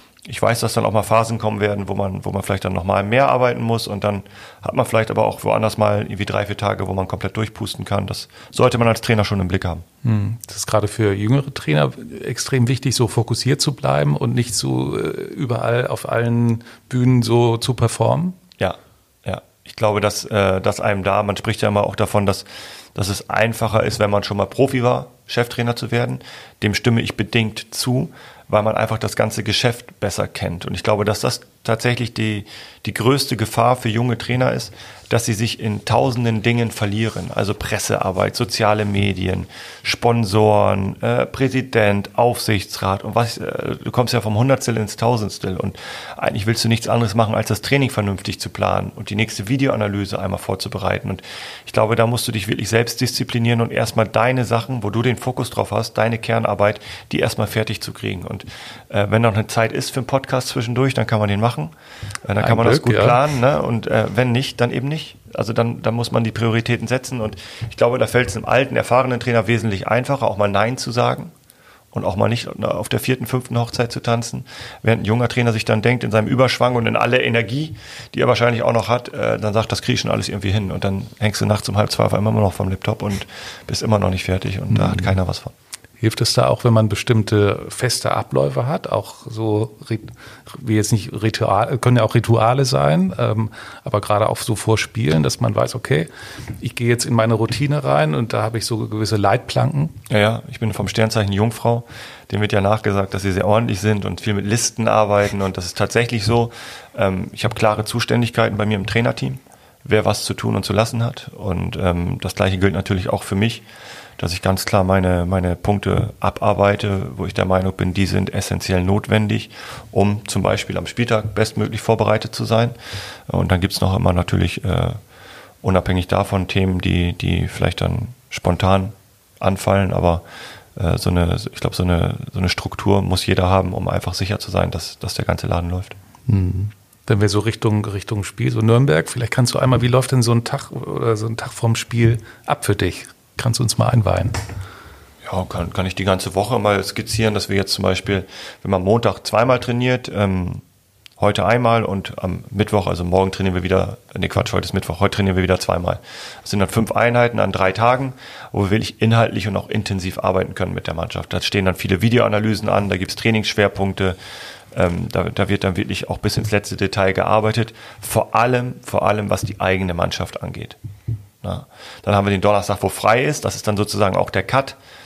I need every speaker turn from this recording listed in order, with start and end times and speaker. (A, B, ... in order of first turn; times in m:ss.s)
0:00.2-0:09.8 A
0:10.0-0:18.4 B
0:18.6-1:11.3 A
1:02.4-1:03.2 B
1:11.9-1:25.5 A
1:24.7-1:25.2 B
1:26.0-1:40.0 B
1:40.1-1:53.6 A
1:54.2-2:05.0 A
2:05.6-2:10.2 A
2:10.8-2:16.0 A
2:16.3-2:24.4 B
2:25.2-2:30.6 A
2:31.2-2:44.2 A
2:44.7-2:50.8 A
2:51.4-2:54.8 A